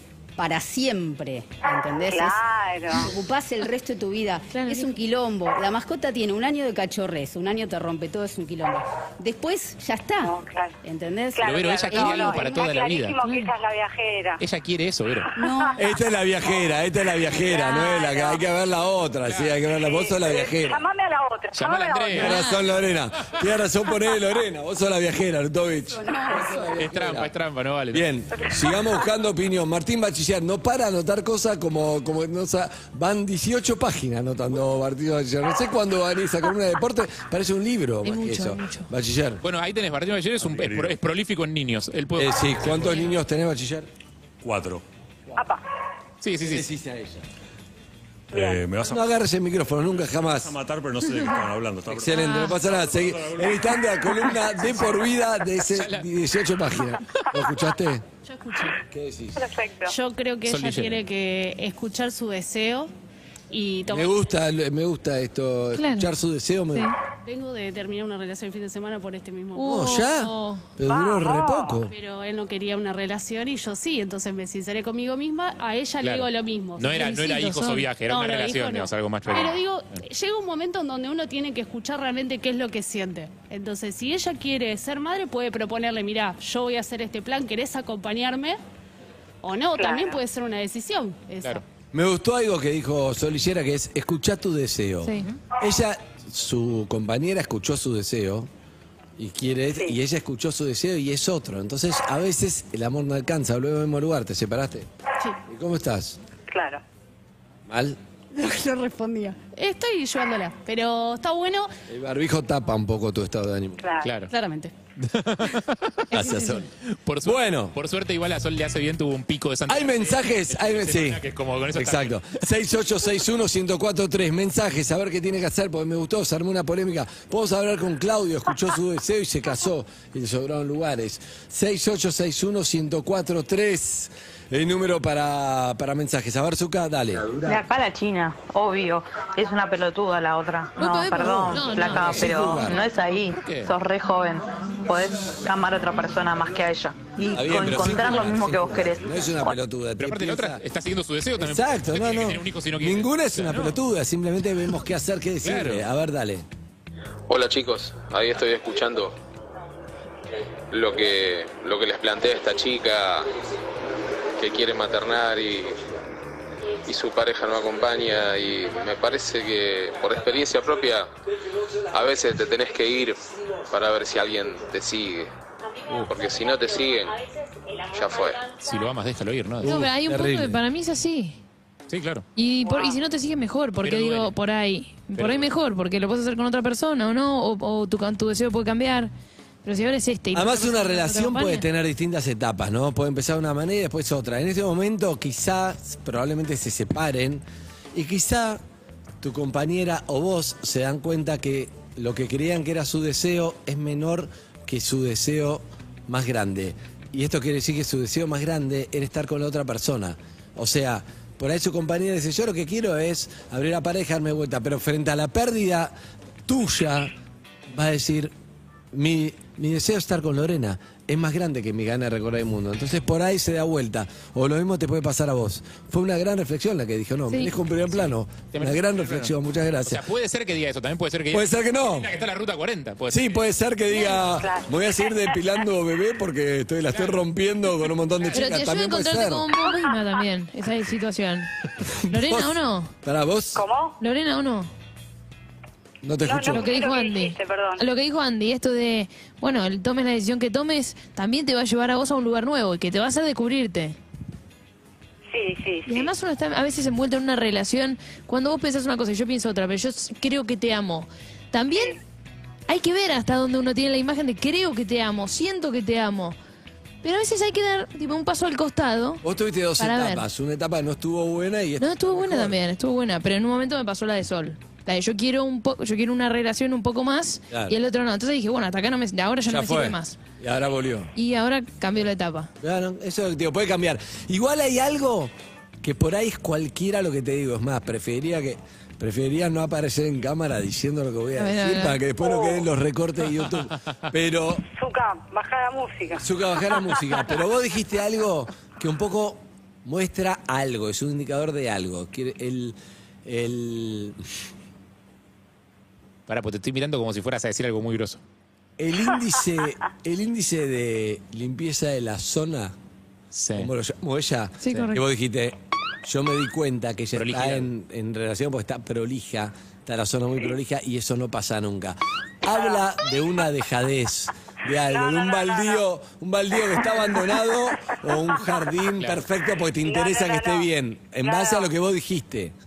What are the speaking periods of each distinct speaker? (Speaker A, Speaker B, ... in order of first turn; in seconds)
Speaker A: 0.4-2.4, 2.9-12.7, 15.4-15.8, 25.9-26.7
Speaker B: 2.1-3.1, 10.2-10.7, 11.4-14.4, 17.3-18.4, 19.7-22.5, 45.4-45.6, 48.3-48.6, 59.4-60.0, 70.9-71.8, 89.8-90.2, 106.5-106.8, 113.8-114.1, 182.6-183.0, 233.9-235.2, 243.6-244.0, 246.2-247.8, 255.3-256.1, 261.7-262.0, 292.2-292.6, 294.7-296.2, 322.5-322.9, 324.9-325.8, 329.8-330.7, 331.2-331.7
Speaker C: 4.5-4.9, 38.0-38.9, 52.1-52.6, 65.7-66.1, 66.7-67.0, 69.5-70.6, 76.9-77.9, 95.0-95.3, 116.1-116.6, 140.8-142.8, 179.6-181.4, 182.4-189.1, 189.6-191.6, 227.3-227.5, 238.3-241.5, 242.1-242.9, 244.0-244.7, 246.5-254.0, 255.9-262.0, 262.7-266.4, 267.0-269.2, 269.8-270.2, 271.8-280.2, 281.1-282.5, 291.4-292.0, 314.6-315.0
Speaker D: 11.4-13.2, 14.4-15.3, 21.5-22.6, 26.8-28.1, 39.4-43.1, 46.2-46.6, 55.7-56.1, 60.5-61.0, 76.0-80.0, 114.0-114.3, 115.0-116.1, 116.8-122.4, 143.3-143.7, 150.0-153.8, 155.4-155.8, 178.6-179.8, 181.9-182.3, 183.8-184.3, 185.1-185.5, 228.5-229.3, 229.8-233.4, 236.9-237.2, 306.3-308.2, 313.3-313.7, 317.1-317.7, 329.0-329.2
Speaker E: 15.8-20.8, 22.1-27.3, 27.9-39.4, 42.2-43.9, 46.4-47.2, 48.9-50.5, 51.9-58.0, 58.9-59.5, 63.9-66.9, 69.6-71.9, 91.9-98.5, 99.2-104.9, 105.5-106.2, 107.7-108.0, 111.9-113.8, 116.1-116.7, 117.2-117.8, 119.7-121.2, 121.7-137.3, 141.6-142.7, 147.3-150.6, 151.4-156.5, 179.6-180.6, 190.3-198.6, 199.2-215.9, 216.5-217.1, 217.7-218.3, 218.9-230.0, 231.3-232.1, 233.1-239.5, 241.9-243.6, 246.0-246.6, 269.2-272.6, 277.5-277.8, 279.5-281.1, 282.6-294.6, 296.2-304.2, 308.8-312.8, 313.6-332.5
Speaker F: 40.4-41.0, 44.4-44.8, 48.3-49.0, 50.4-53.8
Speaker G: 58.2-58.8, 59.9-62.9, 63.5-64.2, 67.2-70.3, 71.9-77.2, 78.1-88.6, 89.4-91.6, 108.3-111.7, 114.3-114.7
Speaker H: 137.4-149.1
Speaker I: 157.3-159.1, 160.7-163.3, 164.4-165.8, 166.8-171.1, 171.9-175.3, 176.1-177.2, 177.9-178.5